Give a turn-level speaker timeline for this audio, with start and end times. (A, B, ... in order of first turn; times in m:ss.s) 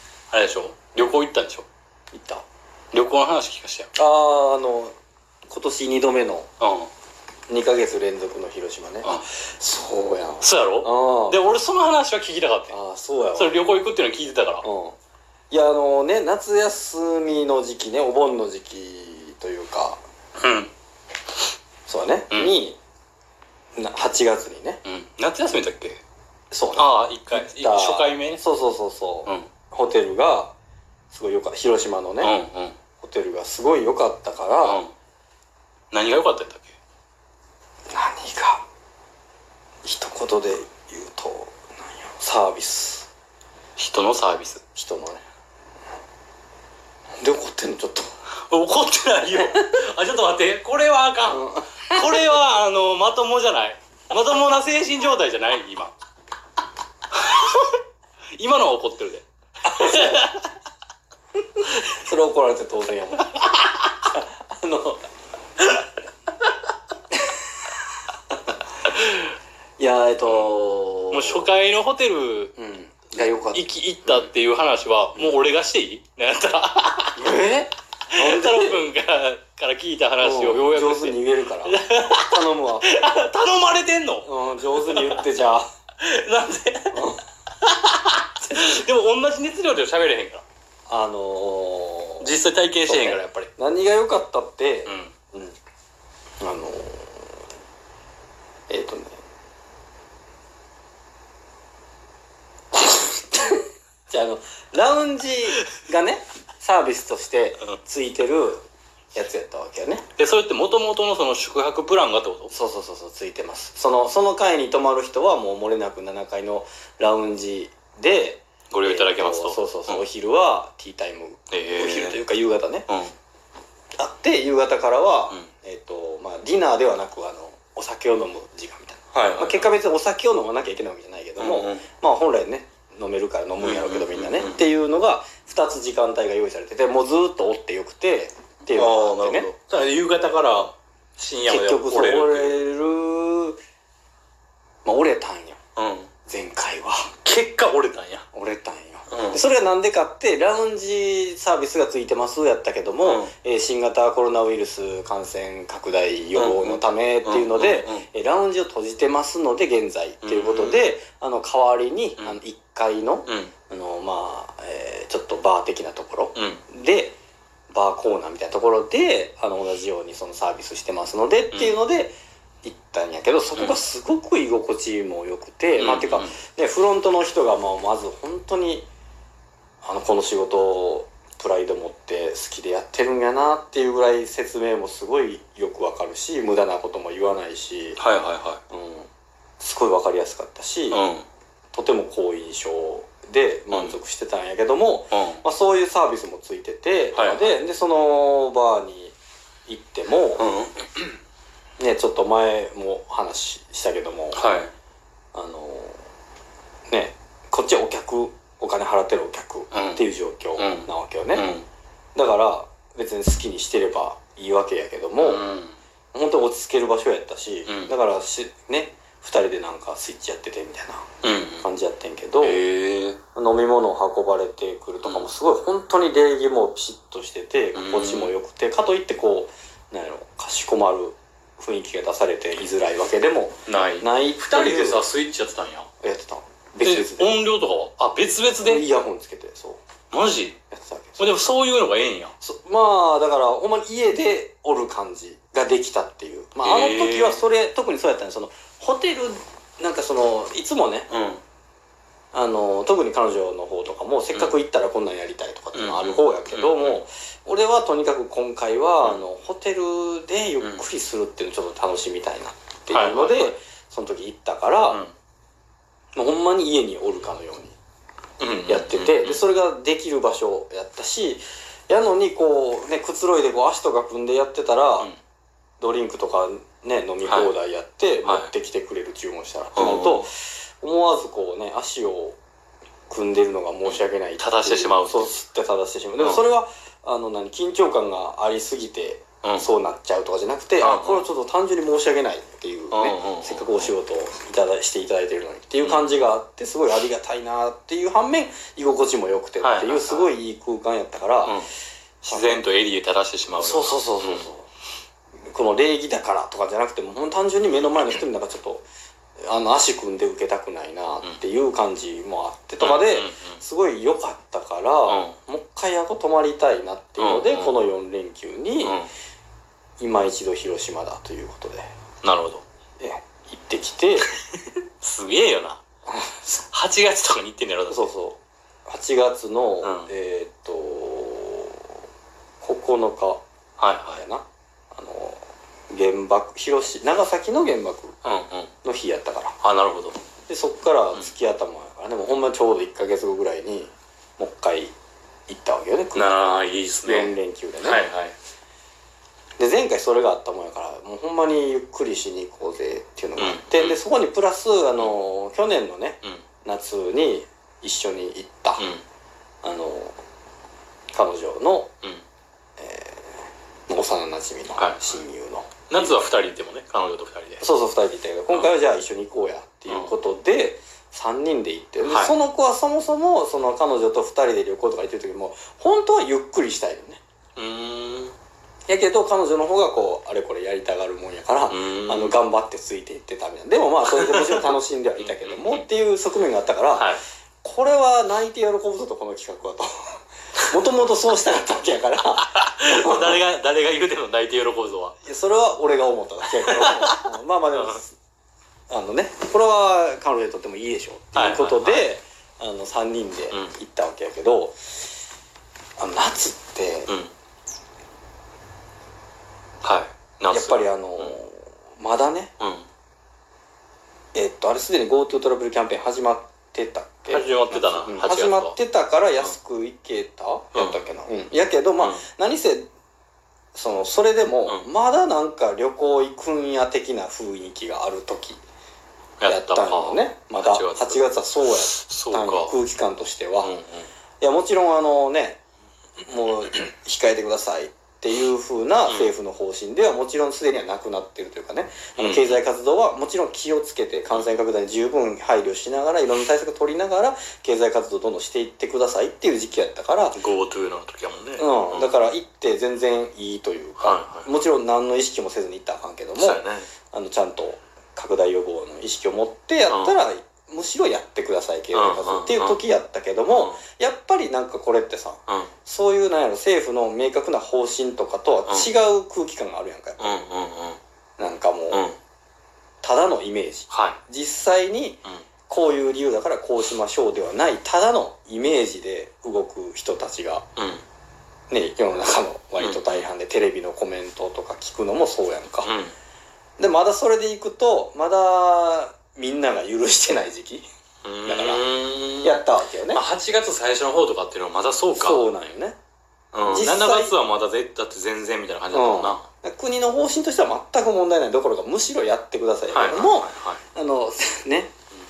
0:00.3-0:01.7 A
0:02.1-0:02.5 B
0:02.9-0:03.9 A
0:04.0-0:04.9 B
0:05.5-0:06.5 B
0:06.6-0:06.9 A
0:07.5-0:11.4 B
0:10.4-0:12.8 A
0:12.7-0:13.6 B
0:13.4-0:14.6 A
0:14.6-0:15.0 B
0:15.5-0:20.0 B
0:20.4-0:20.7 A
0:21.9-0:22.8 B
0:22.3-0:22.6 A
0:23.8-0:24.8 B
0:24.8-0:26.0 A
0:26.5-0:30.6 B
0:26.8-0:28.4 A
0:31.1-0:32.4 B
0:32.2-0:32.8 A
0:33.0-0:34.8 B
0:34.6-0:34.9 A
0:35.9-0:36.8 A
0:37.9-0:38.6 B
0:39.8-0:43.1 B
0:43.8-0:44.6 A
0:44.8-0:45.2 B
0:47.2-0:48.1 B
0:48.5-0:55.9 A
0:51.3-0:52.3 B
0:57.1-0:57.8 A
0:58.4-1:00.5 A
0:59.7-1:00.3 B
1:01.6-1:03.5 B
1:04.0-1:05.0 B
1:08.9-1:09.3 A
1:09.8-1:11.5 B
1:11.1-1:12.6 A
1:12.6-1:14.3 B
1:13.2-1:17.3 A
1:17.2-1:18.9 B
1:18.1-1:25.2 A
1:20.2-1:22.9 B
1:24.2-1:25.7 B
1:26.0-1:27.1 A
1:26.9-1:27.2 B
1:27.6-1:30.4 A
1:30.9-1:35.6 B
1:32.2-1:33.5 A
1:34.9-1:35.1 A
1:36.4-1:37.4 B
1:38.7-1:39.2 B
1:42.9-1:50.0 B
1:50.2-1:52.5 A
1:52.5-2:02.9 B
1:58.7-2:00.0 A
2:01.5-2:02.2 A
2:04.0-2:19.5 B
2:09.1-2:09.7 A
2:11.4-2:11.8 A
2:13.6-2:14.6 A
2:18.7-2:22.6 A
2:21.5-2:23.6 B
2:24.8-2:25.6 B
2:25.8-2:26.1 A
2:26.3-2:27.1 B
2:27.2-2:28.3 A
2:28.3-2:47.2 B
2:29.1-2:29.4 A
2:33.0-2:33.3 A
2:36.4-2:38.0 A
2:40.2-2:40.9 A
2:43.3-2:43.5 A
2:46.4-2:46.6 A
2:47.7-2:58.9 B
2:55.8-2:56.4 A
2:59.8-3:08.0 B
3:08.0-3:08.6 A
3:08.7-3:09.1 B
3:09.6-3:11.0 B
3:10.9-3:11.3 A
3:11.7-3:19.2 B
3:13.7-3:14.0 A
3:15.1-3:15.4 A
3:17.2-3:17.5 A
3:19.7-3:20.5 B
3:20.4-3:20.8 A
3:21.8-3:24.5 B
3:24.3-3:24.7 A
3:25.3-3:26.0 B
3:26.9-3:31.5 B
3:29.7-3:30.0 A
3:30.6-3:31.7 A
3:32.2-3:35.5 B
3:35.2-3:35.8 A
3:36.1-3:41.1 B
3:37.7-3:37.9 A
3:41.2-3:41.7 A
3:41.6-3:42.6 B
3:42.4-3:43.2 A
3:43.4-3:55.0 B
3:47.8-3:48.4 A
3:53.7-3:55.9 A
3:56.0-3:57.5 B
3:56.8-3:58.8 A
3:58.6-3:59.8 B
4:00.1-4:00.6 A
4:00.7-4:01.5 B
4:01.2-4:02.4 A
4:02.4-4:11.1 B
4:06.6-4:07.4 A
4:11.1-4:11.4 A
4:12.3-4:25.0 B
4:15.8-4:17.0 A
4:22.9-4:23.5 A
4:24.9-4:25.1 A
4:26.2-4:27.8 B
4:28.4-4:29.4 A
4:28.7-4:35.1 B
4:35.8-4:42.4 B
4:37.3-4:37.5 A
4:38.2-4:38.5 A
4:39.8-4:40.3 A
4:43.1-5:01.6 B
4:43.8-4:45.4 A
4:49.4-4:49.7 A
4:50.8-4:51.2 A
4:52.9-4:53.9 A
4:55.8-4:56.2 A
4:59.6-5:00.3 A
5:01.4-5:01.7 A
5:02.2-5:04.5 A
5:02.3-5:02.6 B
5:03.6-5:04.7 B
5:05.5-5:08.8 B
5:09.4-5:19.0 B
5:12.8-5:13.6 A
5:15.1-5:15.4 A
5:17.2-5:17.8 A
5:18.8-5:19.1 A
5:20.0-5:21.9 B
5:22.2-5:22.6 A
5:23.0-5:24.3 B
5:25.0-5:25.8 A
5:26.1-5:26.5 B
5:26.6-5:28.1 A
5:27.9-5:32.0 B
5:29.8-5:30.1 A
5:32.6-5:33.4 B
5:33.8-5:34.2 A
5:34.1-5:38.2 B
5:38.2-5:38.7 A
5:38.8-5:39.6 B
5:39.6-5:40.2 A
5:40.5-5:44.9 B
5:45.5-5:46.4 B
5:46.2-5:48.3 A
5:47.0-5:48.1 B
5:49.6-5:58.9 B
5:53.4-5:54.0 A
5:58.8-5:59.0 A
5:59.6-6:00.2 B
6:01.1-6:01.9 B
6:02.8-6:03.4 B
6:03.9-6:06.1 B
6:04.8-6:05.0 A
6:05.9-6:07.6 A
6:07.6-6:17.2 B
6:09.9-6:10.2 A
6:12.1-6:12.3 A
6:17.6-6:18.4 A
6:18.9-6:30.2 B
6:21.7-6:22.4 A
6:24.2-6:24.7 A
6:25.2-6:25.8 A
6:27.0-6:27.2 A
6:30.7-6:33.4 B
6:32.4-6:35.2 A
6:35.2-6:38.1 B
6:36.6-6:37.2 A
6:38.9-6:44.8 B
6:41.3-6:42.1 A
6:46.0-6:47.1 B
6:47.1-6:47.3 A
6:49.8-6:51.4 A
6:50.5-6:52.5 B
6:52.6-6:52.9 A
6:54.3-7:02.8 B
6:57.3-6:58.8 A
7:00.7-7:01.1 A
7:03.7-7:08.6 B
7:09.4-7:11.2 A
7:09.5-7:13.8 B
7:11.9-7:12.8 A
7:13.6-7:14.1 A
7:14.4-7:15.6 B
7:16.2-7:30.4 B
7:22.2-7:22.6 A
7:30.3-7:32.1 A
7:31.6-7:50.4 B
7:34.0-7:34.5 A
7:36.4-7:36.9 A
7:39.9-7:40.2 A
7:41.9-7:42.8 A
7:43.5-7:43.8 A
7:50.2-7:51.0 A
7:51.4-7:52.0 B
7:51.9-7:52.2 A
7:53.0-8:00.7 B
7:53.9-7:54.2 A
8:00.8-8:01.0 A
8:01.7-8:05.9 B
8:02.8-8:03.3 A
8:05.8-8:06.1 A
8:06.8-8:10.9 B
8:11.2-8:15.4 A
8:11.5-8:11.8 B
8:12.4-8:13.2 B
8:15.1-8:16.0 B
8:16.5-8:19.5 A
8:16.6-8:17.4 B
8:18.9-8:24.9 B
8:22.9-8:23.8 A